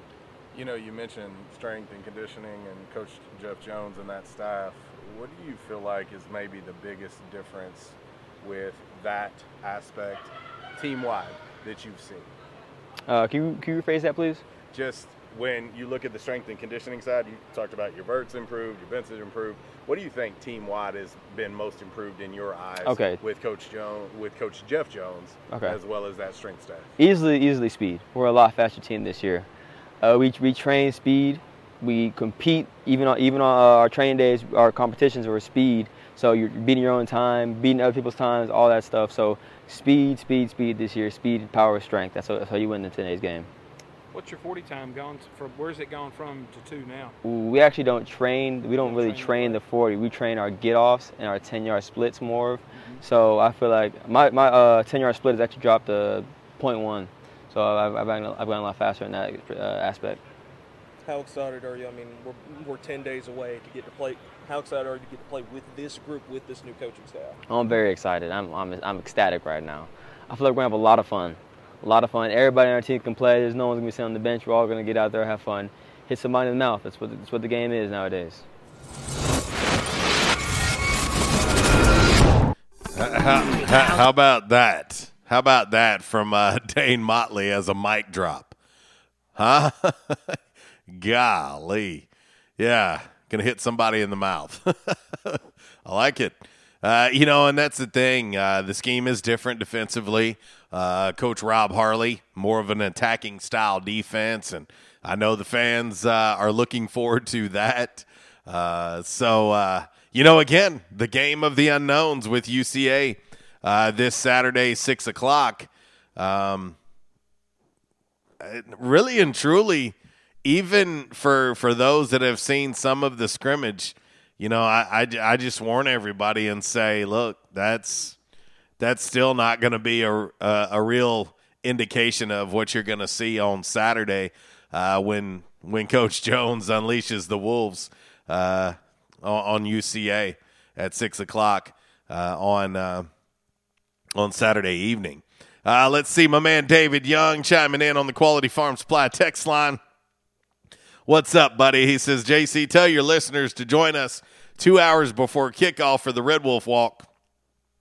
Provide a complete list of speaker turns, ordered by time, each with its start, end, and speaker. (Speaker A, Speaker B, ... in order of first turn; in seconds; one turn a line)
Speaker A: 0.5-12.3
Speaker B: 13.1-14.4
Speaker A: 14.7-26.9
Speaker B: 22.8-23.2
Speaker B: 25.5-25.8
Speaker B: 27.0-29.5
Speaker B: 30.0-43.5
Speaker C: 44.1-47.1
Speaker B: 47.2-60.2
Speaker C: 48.8-49.6
Speaker D: 61.0-67.4
Speaker B: 67.5-78.4
Speaker E: 82.9-88.5
Speaker E: 89.3-90.4
Speaker E: 90.9-116.8
Speaker E: 118.4-128.2
Speaker E: 128.8-143.1
Speaker E: 144.1-149.8
Speaker E: 151.1-157.1